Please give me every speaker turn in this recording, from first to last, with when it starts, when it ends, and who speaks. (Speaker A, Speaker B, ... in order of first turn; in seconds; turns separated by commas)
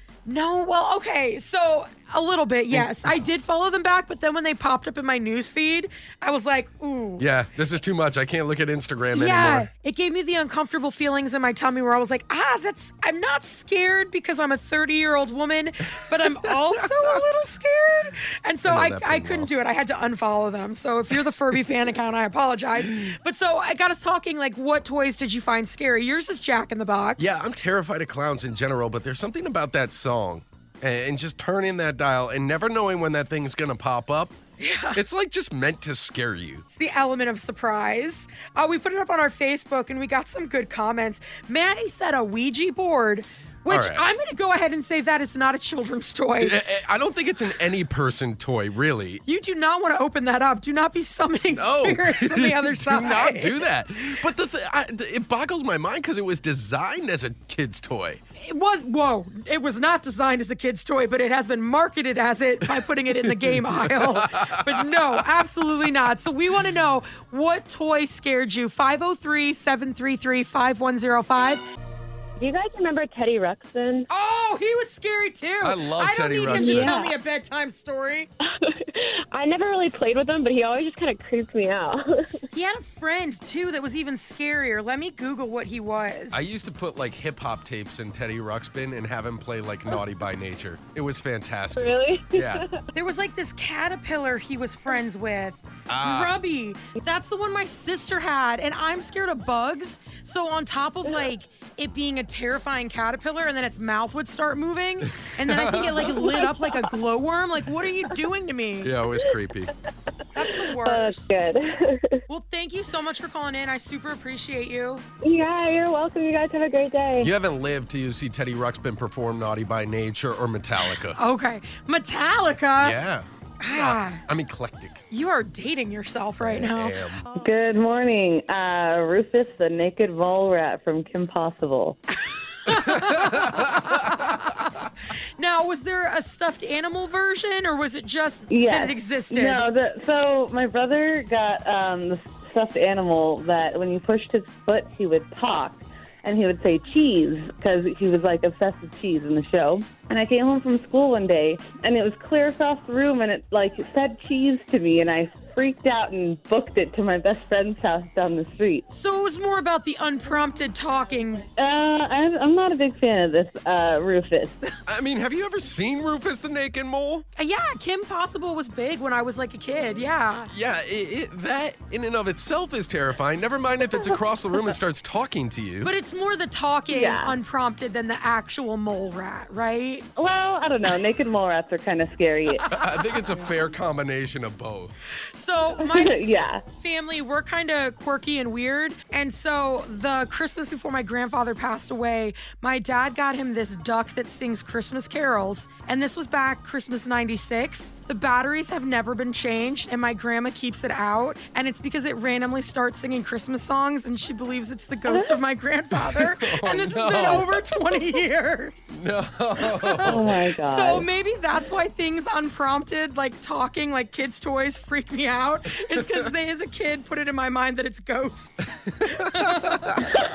Speaker A: 0.3-7.3, Speaker B: 2.7-3.2, Speaker B: 7.2-9.7, Speaker A: 9.1-27.4, Speaker B: 16.8-17.1, Speaker B: 18.6-19.5, Speaker B: 27.2-34.3, Speaker A: 34.6-35.0, Speaker B: 34.9-36.6, Speaker A: 36.7-46.6, Speaker B: 43.7-44.0, Speaker B: 46.4-49.2, Speaker A: 49.2-53.6, Speaker B: 51.5-58.2, Speaker A: 58.4-71.6, Speaker B: 63.4-64.8, Speaker A: 74.1-78.3, Speaker B: 75.6-77.0, Speaker A: 82.5-86.4, Speaker B: 86.3-92.6, Speaker C: 91.8-92.6, Speaker A: 92.9-108.9, Speaker B: 95.9-96.4, Speaker B: 105.5-106.1, Speaker B: 108.8-109.7, Speaker A: 110.3-111.3, Speaker C: 110.8-112.2, Speaker A: 112.3-115.0, Speaker C: 115.2-117.3, Speaker B: 117.2-121.2, Speaker A: 121.1-123.0, Speaker B: 122.8-125.0, Speaker A: 123.6-124.2, Speaker A: 125.1-127.0, Speaker B: 126.4-127.2, Speaker C: 127.4-132.0, Speaker A: 132.2-134.5, Speaker B: 132.7-134.1, Speaker A: 135.4-139.7, Speaker C: 138.5-158.9, Speaker A: 158.9-161.4, Speaker C: 161.6-164.6, Speaker B: 164.8-167.2, Speaker A: 167.3-170.5, Speaker B: 170.5-175.9, Speaker A: 175.8-180.1, Speaker C: 176.9-177.4, Speaker C: 180.2-182.6, Speaker A: 182.5-183.3, Speaker B: 182.7-184.9, Speaker A: 185.3-208.9, Speaker C: 185.8-186.6, Speaker B: 205.9-207.5, Speaker B: 208.9-210.3, Speaker A: 209.6-220.1, Speaker C: 210.0-211.1, Speaker B: 218.8-219.8